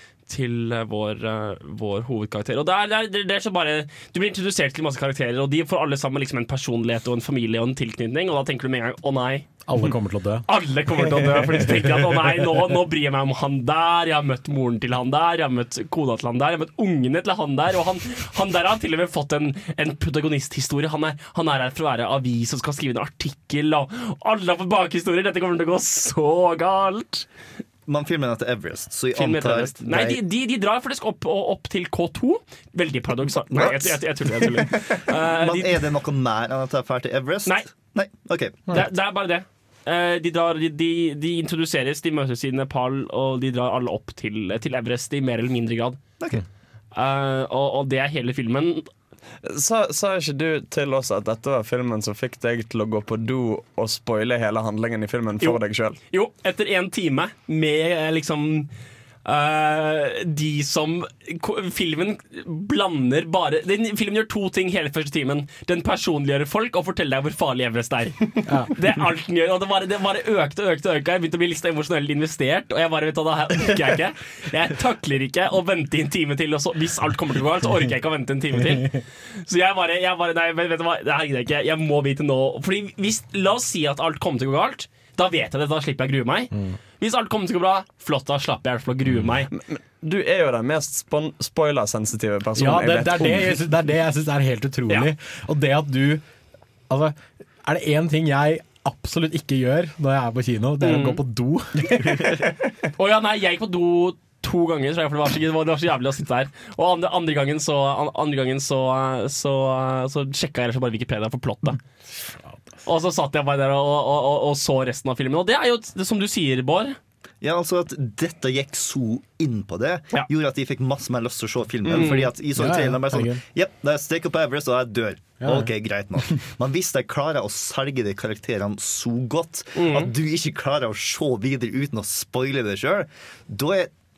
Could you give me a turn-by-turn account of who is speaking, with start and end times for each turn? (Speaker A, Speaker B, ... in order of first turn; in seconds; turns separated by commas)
Speaker A: 0.3-9.5, Speaker B: 9.7-10.4, Speaker A: 10.5-27.3, Speaker C: 27.9-30.2, Speaker A: 29.1-35.8, Speaker C: 33.5-38.6, Speaker A: 38.7-46.0, Speaker A: 46.9-48.9, Speaker D: 49.4-56.0, Speaker A: 55.4-58.7, Speaker A: 59.2-89.5, Speaker B: 68.5-68.7, Speaker B: 86.5-86.8, Speaker D: 89.5-93.8, Speaker B: 92.6-96.2, Speaker B: 96.9-102.3, Speaker A: 100.8-101.2, Speaker A: 103.0-111.8, Speaker A: 112.8-117.0, Speaker C: 117.4-133.9, Speaker D: 121.8-122.1, Speaker A: 121.9-122.3, Speaker B: 122.5-123.4, Speaker B: 125.4-125.7, Speaker A: 129.8-130.1